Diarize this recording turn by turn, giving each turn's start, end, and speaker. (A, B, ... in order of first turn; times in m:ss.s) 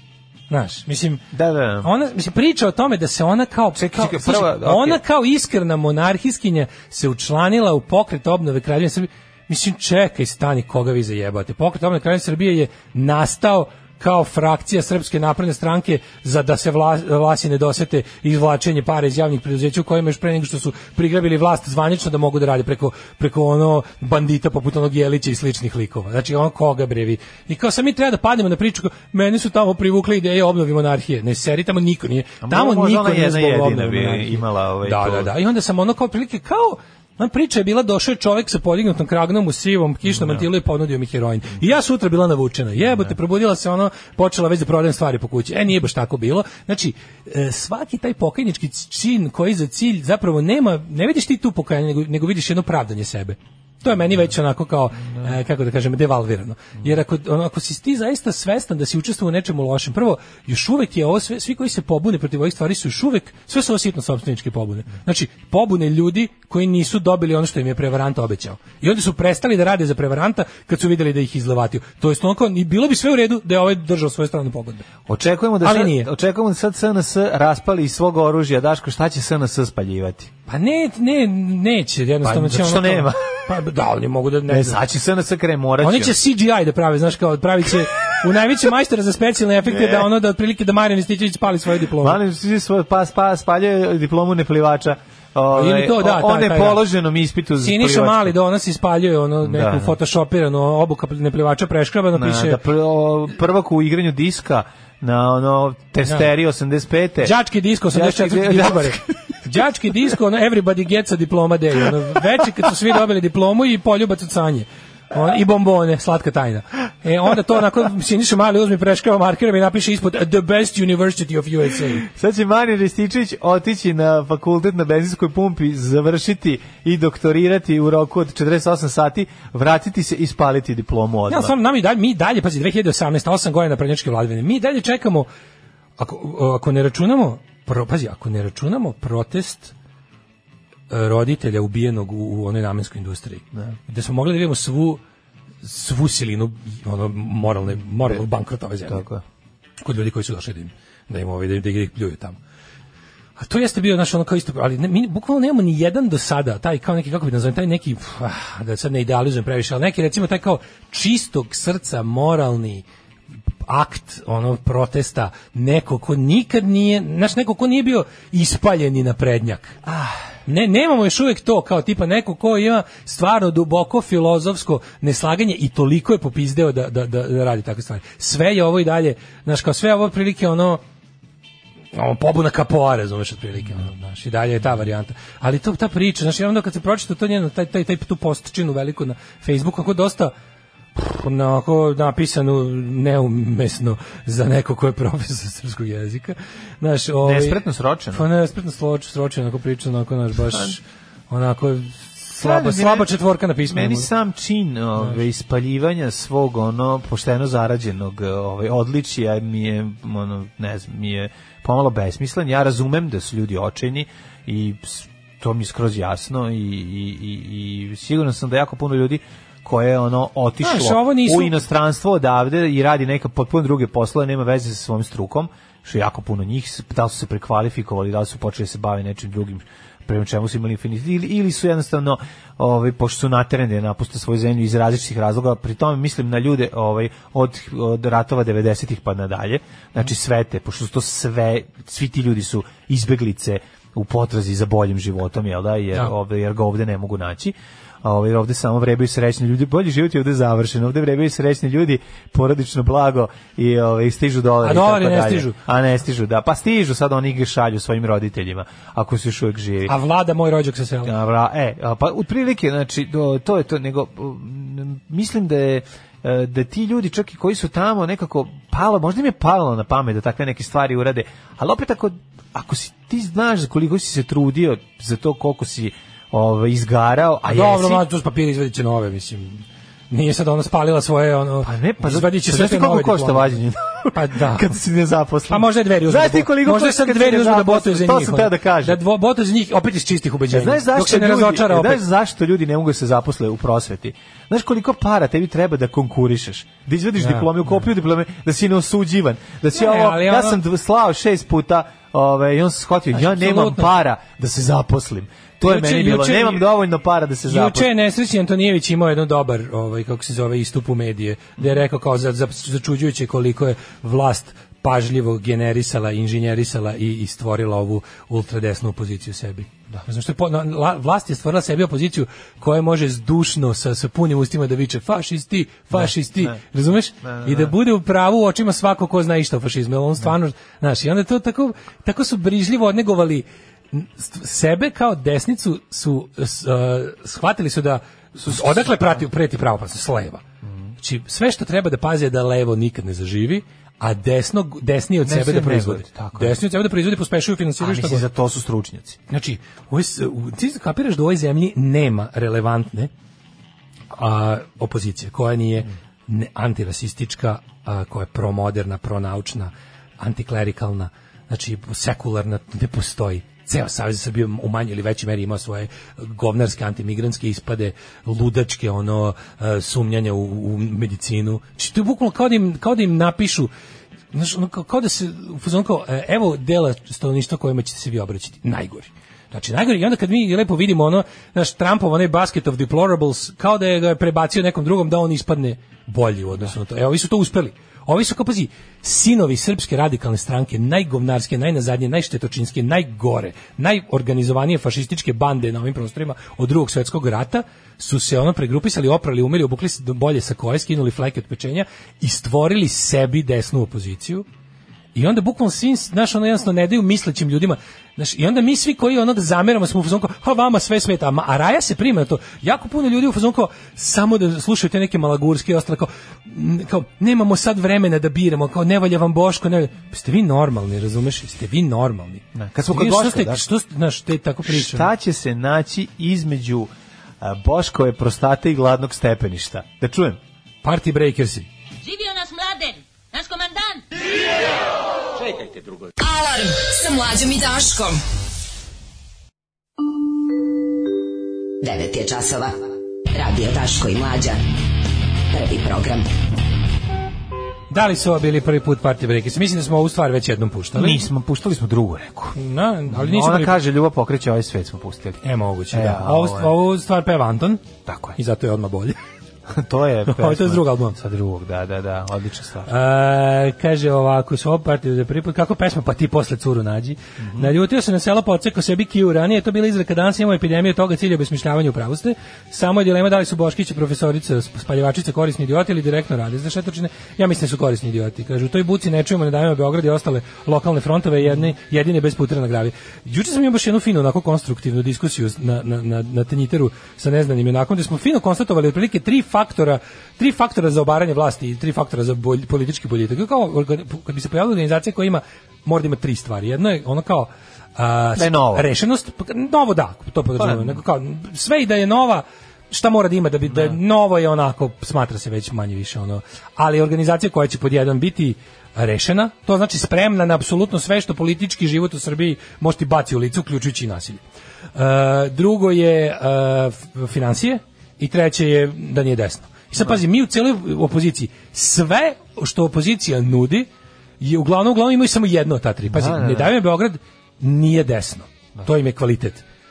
0:00.5-0:01.2 A
0:01.3-0:01.9 B
0:01.8-1:14.9 A
0:03.7-0:05.0 B
0:32.4-0:35.3 B
0:40.1-0:40.4 B
1:15.1-1:20.3 B
1:15.6-1:16.1 A
1:20.5-1:24.8 A
1:22.2-1:23.4 B
1:24.5-1:26.2 B
1:25.8-1:32.2 A
1:29.6-1:30.0 B
1:32.0-1:38.3 B
1:35.5-1:36.8 A
1:37.6-1:42.6 A
1:39.4-1:40.0 B
1:42.1-1:47.3 B
1:47.2-2:02.1 A
1:47.9-1:49.2 B
2:02.0-2:11.5 B
2:11.3-2:15.3 A
2:16.0-2:19.7 A
2:20.9-2:25.0 A
2:25.6-2:29.0 A
2:28.9-2:29.2 B
2:29.8-2:32.4 A
2:33.4-2:42.8 A
2:43.6-2:49.8 A
2:49.8-2:50.1 B
2:50.4-3:00.8 A
3:01.9-3:10.3 A
3:11.0-3:24.1 A
3:17.2-3:18.2 B
3:22.4-3:23.1 B
3:23.7-4:19.9 B
3:40.6-3:41.6 A
4:14.6-4:15.6 A
4:19.8-4:21.1 A
4:21.0-4:38.0 B
4:37.5-4:43.6 A
4:41.6-4:49.0 B
4:44.1-4:44.7 A
4:45.5-4:52.0 A
4:50.5-5:07.9 B
4:57.2-4:57.8 A
4:59.7-5:00.6 A
5:03.1-5:03.9 A
5:05.6-5:06.6 A
5:07.5-5:40.4 A
5:25.9-5:26.6 B
5:27.2-5:27.7 B
5:41.0-5:48.2 A
5:45.2-5:46.6 B
5:47.8-5:49.2 B
5:49.3-5:53.1 A
5:54.1-6:13.7 A
6:14.3-6:44.4 A
6:45.1-7:05.1 A
7:02.5-7:03.6 B
7:04.6-7:10.4 B
7:10.8-7:11.7 A
7:12.0-7:14.0 C
7:12.4-7:12.8 D
7:16.2-7:18.2 D
7:21.8-7:22.8 E
7:23.3-7:24.6 E
7:25.5-7:26.3 E
7:27.9-7:31.2 A
7:30.9-7:32.6 B
7:32.5-7:33.8 A
7:33.1-7:36.7 B
7:35.4-7:37.8 A
7:38.0-7:38.4 B
7:38.4-7:39.2 A
7:39.7-7:42.9 B
7:40.3-7:41.2 A
7:42.9-8:34.4 A
7:47.4-7:47.7 B
8:18.4-8:18.9 B
8:20.6-8:21.0 B
8:35.0-8:43.9 A
8:44.4-8:49.6 A
8:46.1-8:46.7 B